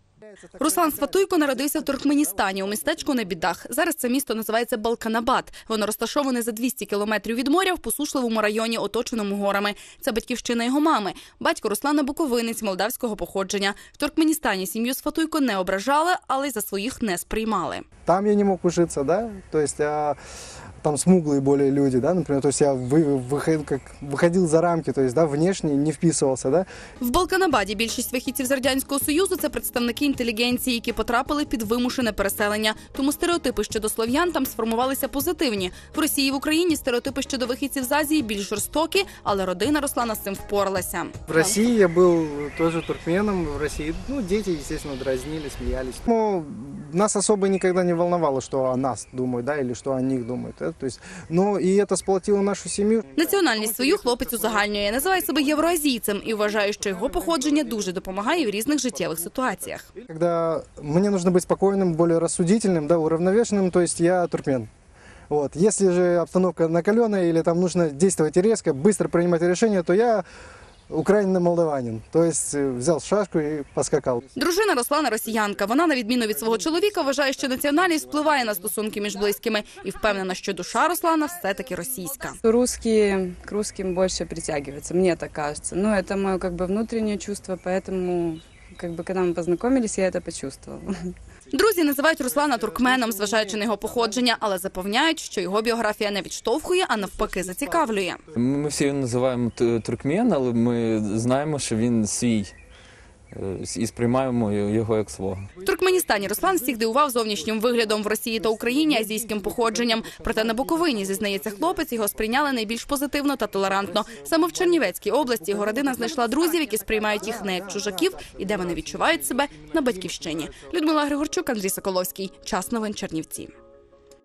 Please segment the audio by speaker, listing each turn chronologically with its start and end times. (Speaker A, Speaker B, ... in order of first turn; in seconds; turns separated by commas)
Speaker A: 0.3-3.5, Speaker B: 0.6-17.8, Speaker A: 18.1-20.2, Speaker A: 20.8-26.7, Speaker B: 27.0-41.6, Speaker A: 41.3-55.8, Speaker B: 53.1-59.9, Speaker A: 56.3-64.7, Speaker A: 65.3-70.2, Speaker A: 70.9-74.2, Speaker B: 74.3-82.4, Speaker A: 78.0-78.7, Speaker C: 82.4-91.1, Speaker B: 91.5-98.2, Speaker A: 92.4-94.2, Speaker A: 97.1-98.2, Speaker D: 98.3-102.5, Speaker D: 103.3-105.5, Speaker A: 105.5-112.3, Speaker B: 105.6-123.5, Speaker A: 113.5-120.8